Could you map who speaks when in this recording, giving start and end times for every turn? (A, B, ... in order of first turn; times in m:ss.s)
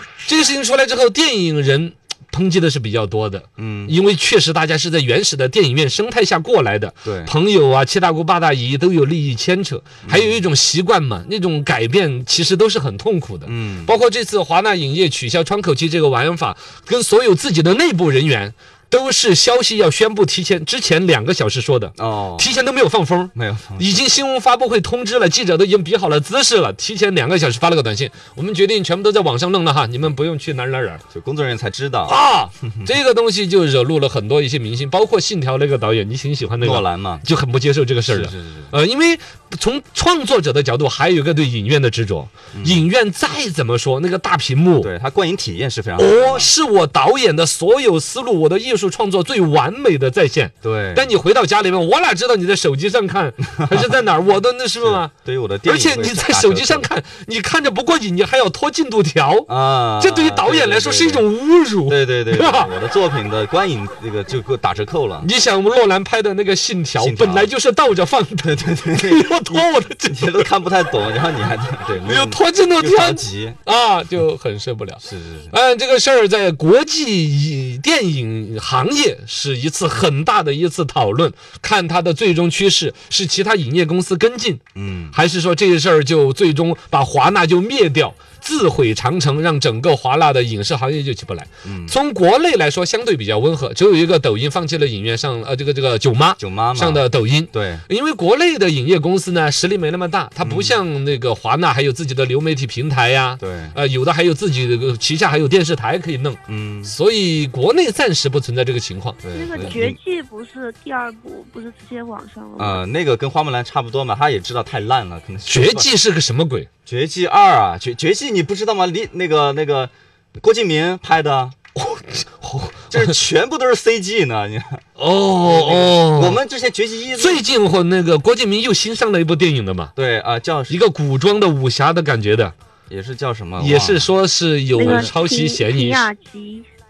0:00.2-0:31.0 A
0:03.6-0:04.0 B
0:07.0-0:07.3 B
0:10.0-0:10.5 B
0:13.4-0:14.0 B
0:22.0-0:22.5 B
0:23.3-0:24.0 B
0:31.1-0:32.2 B
0:32.1-0:44.9 A
0:36.6-0:37.2 B
0:38.1-0:38.8 B
0:42.5-0:42.9 B
0:44.8-0:46.5 B
0:46.0-0:55.1 A
0:50.6-0:51.1 B
0:54.8-0:56.9 B
0:55.6-1:02.7 A
0:59.5-1:01.3 B
1:01.9-1:05.3 B
1:05.2-1:10.5 A
1:07.0-1:07.5 B
1:08.4-1:13.6 B
1:12.0-1:49.7 A
1:15.0-1:15.5 B
1:24.8-1:25.2 B
1:31.6-1:32.0 B
1:36.4-1:37.8 B
1:40.4-1:40.8 B
1:43.4-1:43.8 B
1:46.5-1:46.9 B
1:49.2-1:50.0 B
1:49.3-1:52.8 C
1:52.6-1:55.9 B
1:55.5-1:56.7 A
1:56.9-2:01.6 B
2:01.8-2:03.2 A
2:02.9-2:04.8 B
2:05.0-2:06.4 A
2:05.4-2:07.4 B
2:07.2-2:09.9 A
2:10.0-2:10.8 B
2:10.7-2:12.5 A
2:12.9-2:14.1 B
2:13.6-2:16.1 A
2:14.7-2:16.7 C